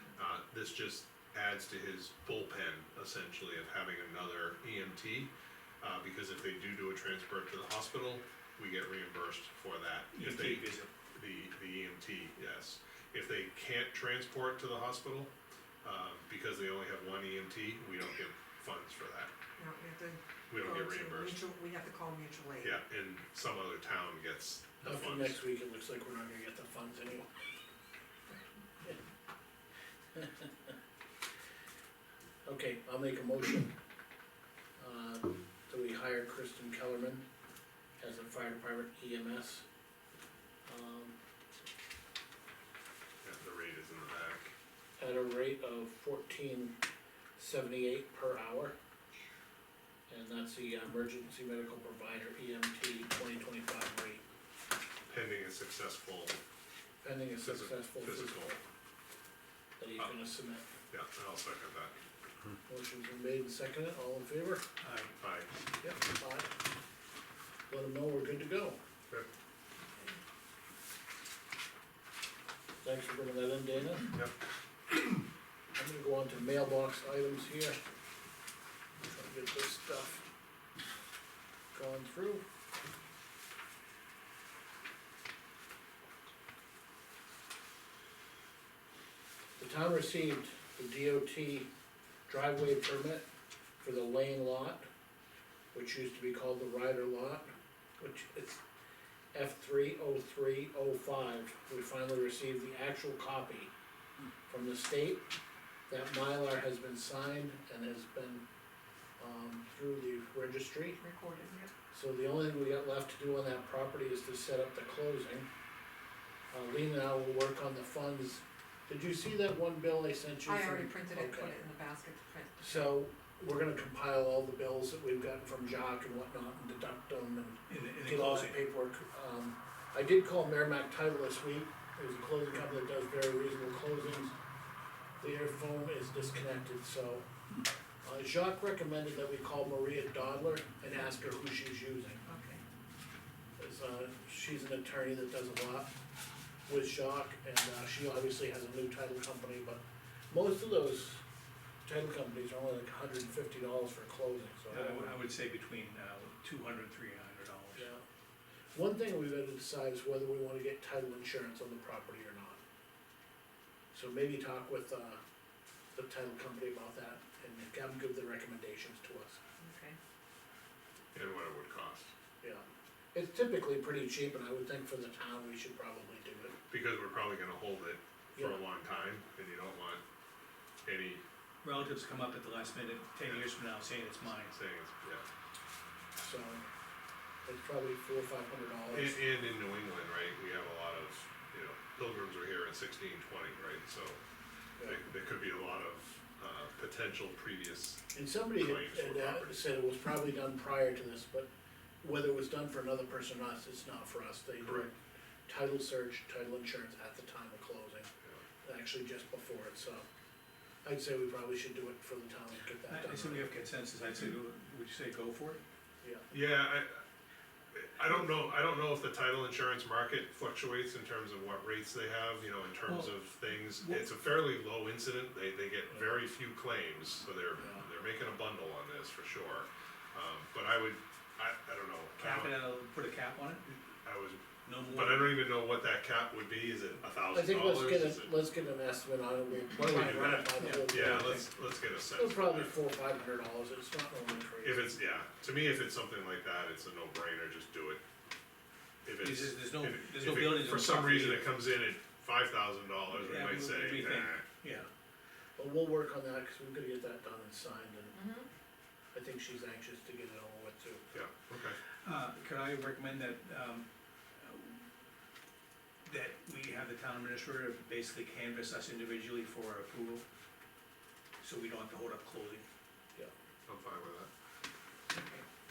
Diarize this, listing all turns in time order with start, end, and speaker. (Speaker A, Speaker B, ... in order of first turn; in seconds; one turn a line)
Speaker A: 0.1-15.3
Speaker B: 10.1-10.9
Speaker A: 15.8-19.3
Speaker C: 19.6-22.8
Speaker A: 20.5-21.4
Speaker A: 22.6-25.4
Speaker D: 24.8-27.3
Speaker D: 30.1-30.5
Speaker D: 32.5-33.8
Speaker D: 34.8-37.2
Speaker D: 38.0-39.7
Speaker D: 40.6-41.1
Speaker A: 43.2-44.5
Speaker D: 45.0-46.8
Speaker D: 47.4-48.8
Speaker D: 50.1-54.2
Speaker A: 55.1-56.4
Speaker D: 57.0-58.6
Speaker A: 57.4-58.5
Speaker D: 59.8-60.7
Speaker A: 60.9-62.0
Speaker D: 62.7-64.6
Speaker B: 64.8-65.1
Speaker A: 65.2-65.5
Speaker D: 65.8-66.5
Speaker D: 67.7-68.8
Speaker C: 69.9-70.2
Speaker D: 72.8-74.2
Speaker D: 75.8-77.8
Speaker D: 79.0-80.2
Speaker D: 81.7-82.4
Speaker D: 89.6-91.7
Speaker D: 92.3-93.2
Speaker D: 93.8-94.8
Speaker D: 95.7-98.6
Speaker D: 99.3-103.7
Speaker D: 104.5-105.2
Speaker D: 105.9-108.4
Speaker D: 109.2-111.0
Speaker C: 111.0-111.7
Speaker D: 111.9-115.5
Speaker D: 116.5-121.6
Speaker C: 120.4-122.9
Speaker D: 122.6-134.3
Speaker B: 127.7-128.6
Speaker D: 135.2-137.3
Speaker D: 138.0-142.2
Speaker C: 142.2-142.6
Speaker D: 143.6-145.9
Speaker D: 146.7-151.2
Speaker D: 151.8-155.2
Speaker B: 154.7-157.9
Speaker D: 157.8-158.0
Speaker D: 158.7-162.6
Speaker D: 163.9-165.2
Speaker D: 165.9-169.4
Speaker C: 169.6-170.0
Speaker A: 171.2-172.1
Speaker D: 172.4-176.6
Speaker A: 176.7-180.0
Speaker D: 178.3-178.6
Speaker A: 180.8-181.2
Speaker B: 181.6-184.5
Speaker A: 183.2-183.5
Speaker A: 184.4-185.2
Speaker D: 186.2-186.6
Speaker D: 187.4-189.2
Speaker A: 188.9-194.2
Speaker A: 194.8-198.0
Speaker D: 198.1-201.5
Speaker A: 198.5-199.6
Speaker D: 202.0-204.9
Speaker A: 204.6-204.9
Speaker D: 205.5-208.1
Speaker D: 208.6-210.1
Speaker D: 210.8-213.5
Speaker B: 212.9-215.6
Speaker D: 216.0-216.3
Speaker A: 216.3-217.0
Speaker A: 217.7-232.6
Speaker B: 223.7-224.0
Speaker B: 232.2-233.6
Speaker A: 233.7-238.3
Speaker B: 234.7-235.4
Speaker D: 237.3-241.4
Speaker A: 239.7-242.7
Speaker B: 240.6-241.4
Speaker D: 242.2-244.9
Speaker A: 244.6-248.0
Speaker A: 249.1-254.4
Speaker B: 249.2-251.5
Speaker B: 253.1-254.9
Speaker D: 255.6-258.2
Speaker C: 258.1-258.5
Speaker D: 259.1-261.2
Speaker A: 261.1-261.8
Speaker B: 262.0-263.9
Speaker B: 264.4-264.8
Speaker B: 266.1-270.2
Speaker B: 271.4-272.6
Speaker A: 273.7-274.3
Speaker C: 275.1-275.4